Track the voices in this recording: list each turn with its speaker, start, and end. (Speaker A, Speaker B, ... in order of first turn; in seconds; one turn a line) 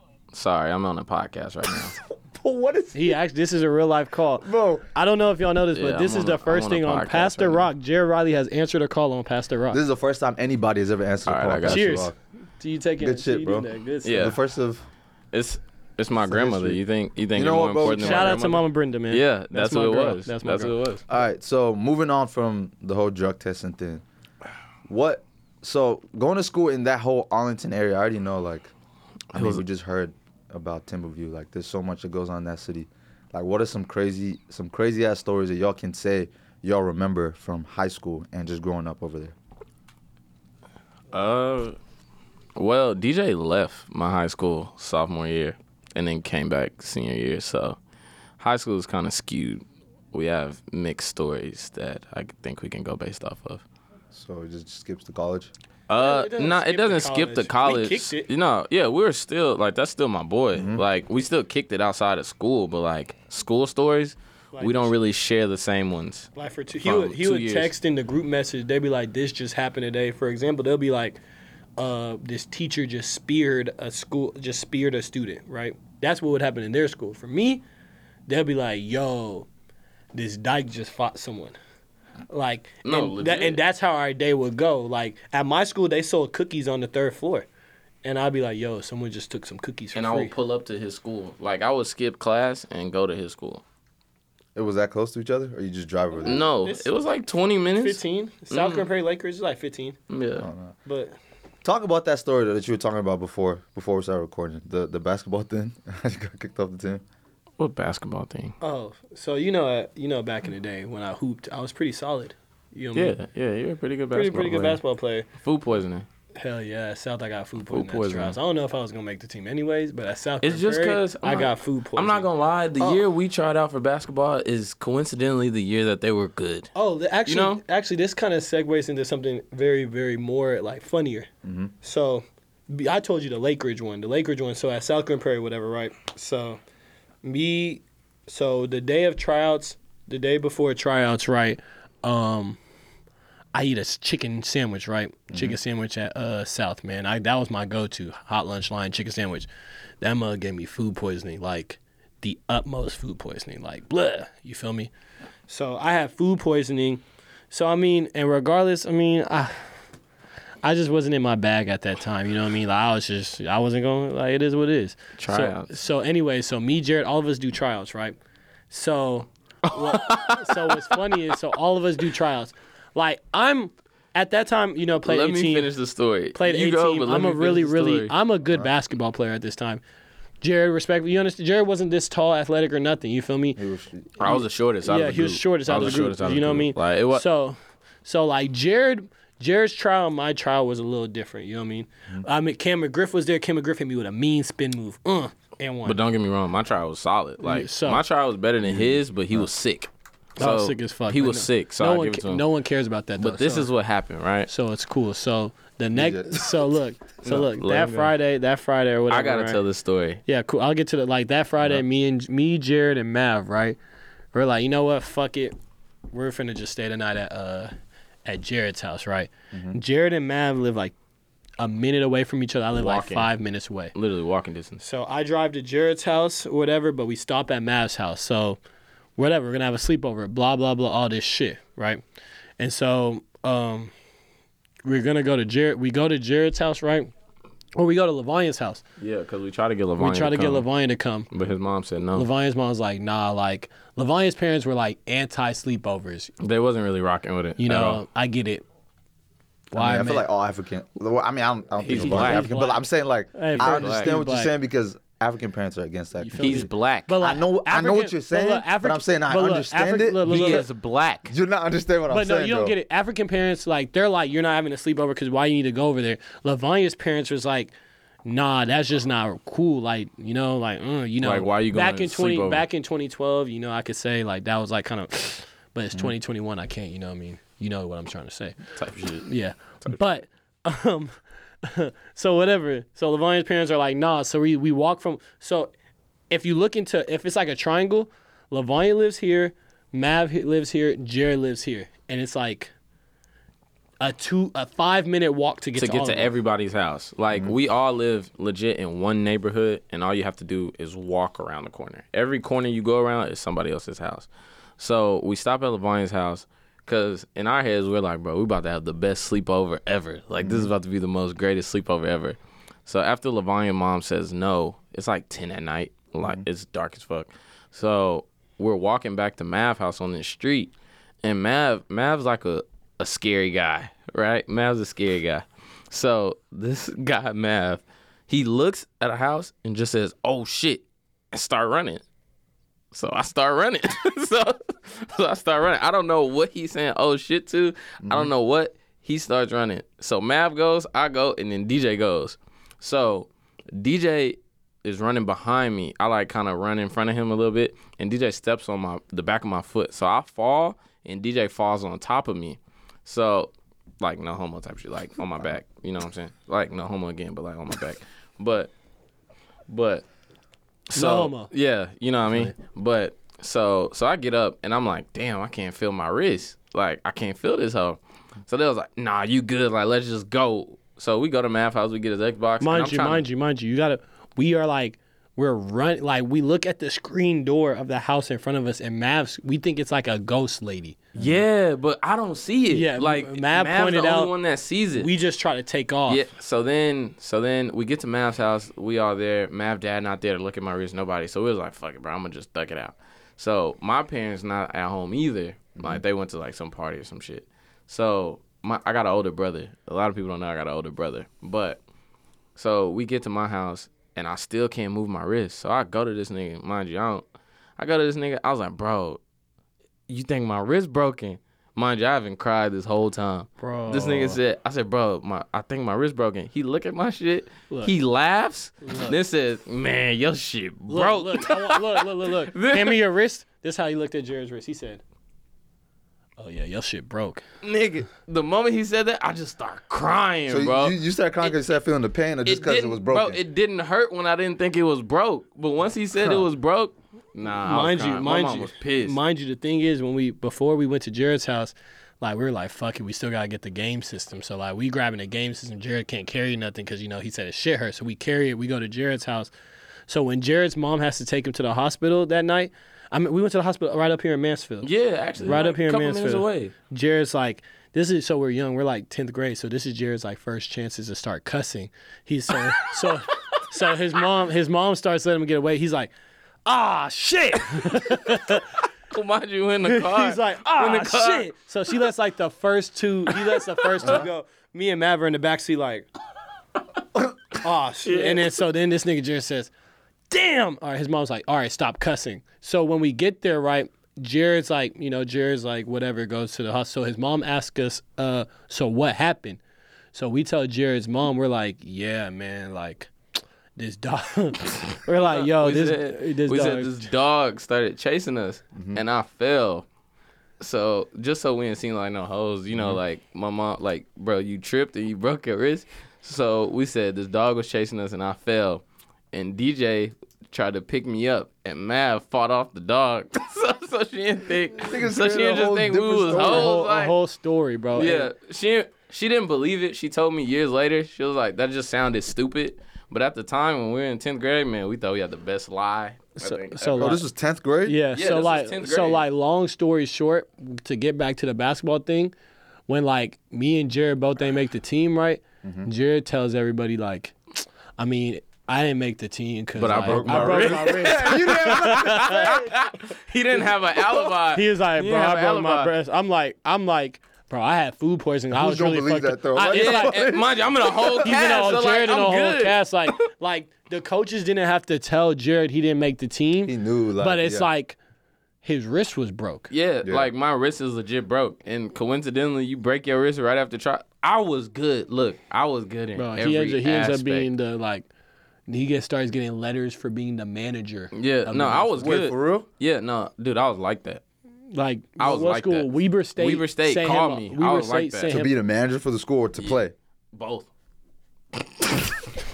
Speaker A: 0.3-2.0
Speaker B: 1.7-3.2
Speaker C: 2.9-9.8
Speaker B: 4.4-4.9
Speaker A: 5.8-7.7
Speaker B: 9.7-12.2
Speaker A: 11.3-12.1
Speaker C: 11.7-14.3
Speaker B: 13.0-14.8
Speaker A: 14.0-14.4
Speaker A: 15.3-21.0
Speaker B: 16.2-16.8
Speaker B: 17.4-18.4
Speaker C: 17.8-20.8
Speaker B: 21.1-24.0
Speaker B: 24.9-28.7
Speaker A: 29.3-29.6
Speaker B: 29.3-39.3
Speaker A: 41.1-41.8
Speaker A: 42.6-47.8
Speaker A: 48.4-53.6
Speaker B: 54.1-55.5
Speaker A: 55.9-66.3
Speaker C: 56.0-58.3
Speaker B: 60.5-60.8
Speaker C: 64.5-65.0
Speaker C: 66.3-71.2
Speaker A: 66.8-67.8
Speaker C: 71.8-77.6
Speaker C: 78.3-79.5
Speaker C: 80.1-81.6
Speaker C: 82.3-87.5
Speaker A: 82.8-83.6
Speaker C: 88.0-90.3
Speaker A: 89.9-93.6
Speaker B: 94.5-96.4
Speaker C: 96.2-96.9
Speaker A: 96.2-98.9
Speaker C: 97.8-100.0
Speaker A: 100.1-100.5
Speaker B: 100.4-100.8
Speaker C: 100.8-101.2
Speaker B: 101.6-107.0
Speaker A: 107.6-108.6
Speaker C: 108.6-113.2
Speaker A: 113.0-114.8
Speaker C: 114.1-115.3
Speaker A: 115.4-116.1
Speaker C: 116.3-122.3
Speaker A: 117.7-118.4
Speaker A: 120.4-126.7
Speaker B: 122.8-123.0
Speaker C: 126.8-131.3
Speaker A: 127.3-127.6
Speaker B: 131.4-131.7
Speaker C: 131.8-136.6
Speaker C: 137.2-142.6
Speaker C: 143.5-149.5
Speaker B: 145.3-145.6
Speaker C: 150.0-154.9
Speaker C: 155.5-159.7
Speaker C: 160.6-168.2
Speaker A: 165.2-165.7
Speaker C: 168.7-175.7
Speaker A: 169.7-171.3
Speaker A: 175.0-178.1
Speaker C: 176.3-179.8
Speaker C: 180.4-183.6
Speaker B: 183.6-184.1
Speaker A: 184.2-187.2
Speaker C: 184.2-196.0
Speaker A: 195.8-202.5
Speaker C: 197.4-198.0
Speaker B: 198.6-199.5
Speaker C: 200.4-203.7
Speaker A: 203.2-204.5
Speaker C: 204.5-209.6
Speaker B: 205.9-206.7
Speaker A: 207.2-208.1
Speaker A: 209.1-210.2
Speaker C: 210.3-213.8
Speaker C: 214.3-215.6
Speaker C: 216.1-217.7
Speaker C: 218.2-220.9
Speaker B: 219.5-219.8
Speaker C: 221.6-223.9
Speaker A: 222.8-223.3
Speaker A: 223.9-224.8
Speaker C: 224.8-228.6
Speaker C: 229.2-232.0
Speaker C: 232.6-233.9
Speaker C: 234.8-237.1
Speaker C: 237.8-238.8
Speaker A: 239.0-240.7
Speaker C: 240.0-241.3
Speaker A: 241.3-242.3
Speaker C: 242.1-246.3
Speaker A: 246.4-248.0
Speaker C: 247.6-248.6
Speaker C: 249.7-250.3
Speaker B: 249.7-260.7
Speaker A: 251.8-252.5
Speaker C: 251.8-254.5
Speaker A: 253.6-254.1
Speaker C: 256.2-260.6
Speaker A: 256.4-257.1
Speaker A: 260.3-261.3
Speaker B: 261.3-262.8
Speaker C: 262.1-267.7
Speaker C: 268.2-278.6
Speaker A: 271.2-272.7
Speaker A: 278.8-279.3
Speaker C: 279.2-285.7
Speaker C: 286.3-292.7
Speaker C: 294.0-296.3
Speaker A: 295.8-304.3
Speaker A: 304.8-332.0
Speaker B: 310.4-310.7
Speaker A: 332.9-358.7
Speaker B: 338.0-338.3
Speaker A: 359.7-360.1
Speaker A: 360.9-373.3
Speaker C: 360.9-361.5
Speaker C: 372.6-381.0
Speaker A: 381.2-385.1
Speaker C: 382.7-384.3
Speaker C: 384.9-386.3
Speaker A: 386.1-401.8
Speaker B: 395.8-396.0
Speaker A: 402.6-407.2
Speaker A: 407.8-409.2
Speaker A: 410.1-423.0
Speaker C: 413.6-414.4
Speaker C: 418.8-419.2
Speaker C: 420.9-425.0
Speaker C: 426.4-427.4
Speaker A: 427.6-431.5
Speaker B: 430.5-433.4
Speaker A: 432.5-439.2
Speaker B: 436.2-436.5
Speaker C: 437.7-449.5
Speaker C: 450.1-454.9
Speaker A: 454.8-456.7
Speaker C: 455.4-466.1
Speaker C: 466.7-468.8
Speaker A: 469.1-471.5
Speaker C: 469.9-476.1
Speaker A: 473.3-474.2
Speaker C: 477.6-479.7
Speaker A: 478.1-478.6
Speaker C: 480.3-489.6
Speaker C: 490.1-493.1
Speaker C: 493.8-497.1
Speaker A: 495.2-499.9
Speaker B: 498.8-499.0
Speaker A: 500.6-517.2
Speaker B: 514.8-516.8
Speaker C: 516.3-518.3
Speaker A: 517.9-527.2
Speaker C: 526.4-527.2
Speaker B: 527.0-528.0
Speaker C: 527.9-532.3
Speaker A: 528.1-529.2
Speaker C: 532.9-537.4
Speaker B: 535.6-535.9
Speaker C: 538.0-542.5
Speaker A: 539.8-545.9
Speaker B: 539.9-542.8
Speaker C: 544.4-550.3
Speaker B: 548.5-551.3
Speaker A: 549.7-552.8
Speaker C: 551.2-558.0
Speaker B: 556.7-557.7
Speaker C: 558.6-559.7
Speaker A: 559.7-567.5
Speaker B: 560.0-560.3
Speaker C: 566.2-568.1
Speaker C: 568.7-572.1
Speaker A: 571.1-574.2
Speaker B: 572.0-572.7
Speaker C: 574.7-578.5
Speaker A: 575.2-578.3
Speaker B: 578.3-579.9
Speaker A: 580.3-580.7